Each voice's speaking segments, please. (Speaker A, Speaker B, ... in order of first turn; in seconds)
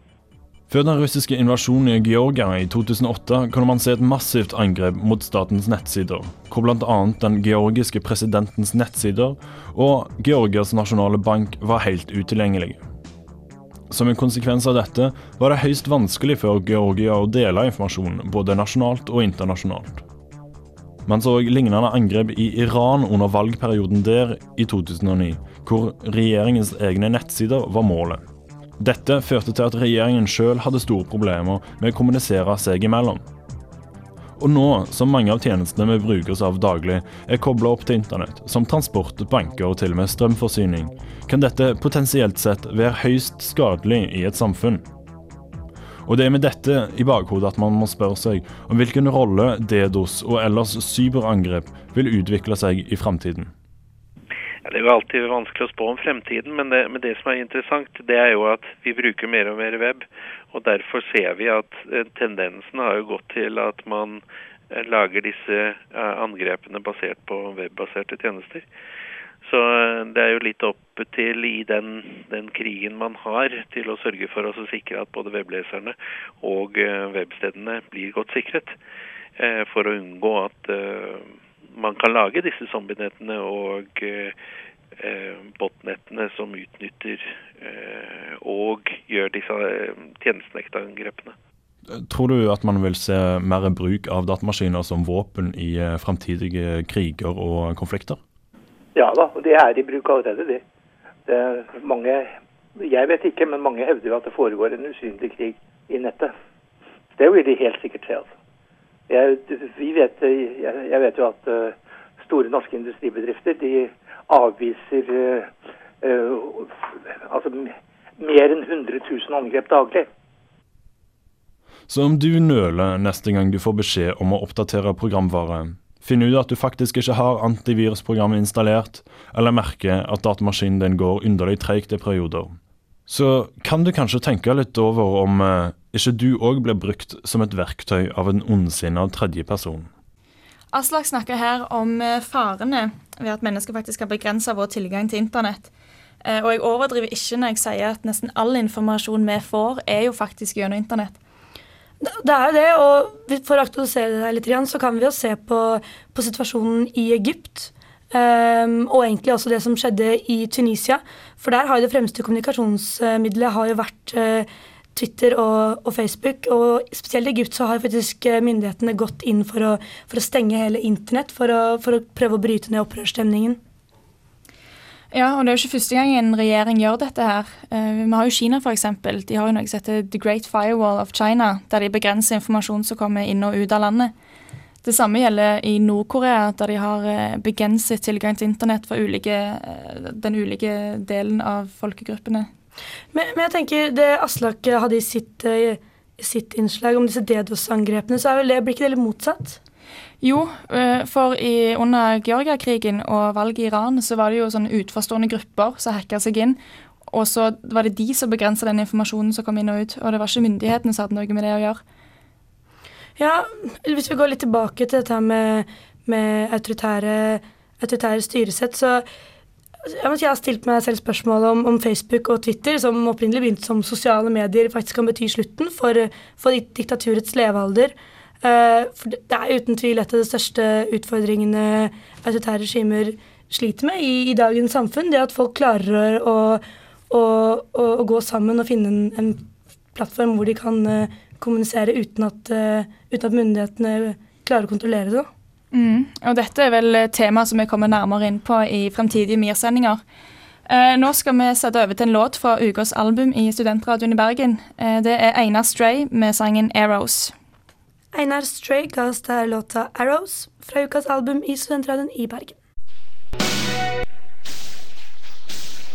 Speaker A: 0.7-12.8, 13.9-20.0, 21.1-28.2, 28.8-33.2, 34.4-44.8, 46.1-53.5, 91.9-98.2, 121.9-132.6, 133.1-139.9
Speaker B: 54.7-68.7, 69.4-78.8, 79.4-84.3, 85.0-91.3
Speaker C: 99.0-100.6, 101.3-106.3, 107.2-108.3, 109.1-116.7, 117.3-120.1
Speaker D: 140.7-145.7, 146.2-151.2, 175.1-184.1, 184.8-192.5, 200.2-211.8, 245.7-250.0, 250.7-257.3
Speaker E: 152.0-173.6, 193.1-199.6, 213.2-219.1, 219.9-245.3, 258.1-262.6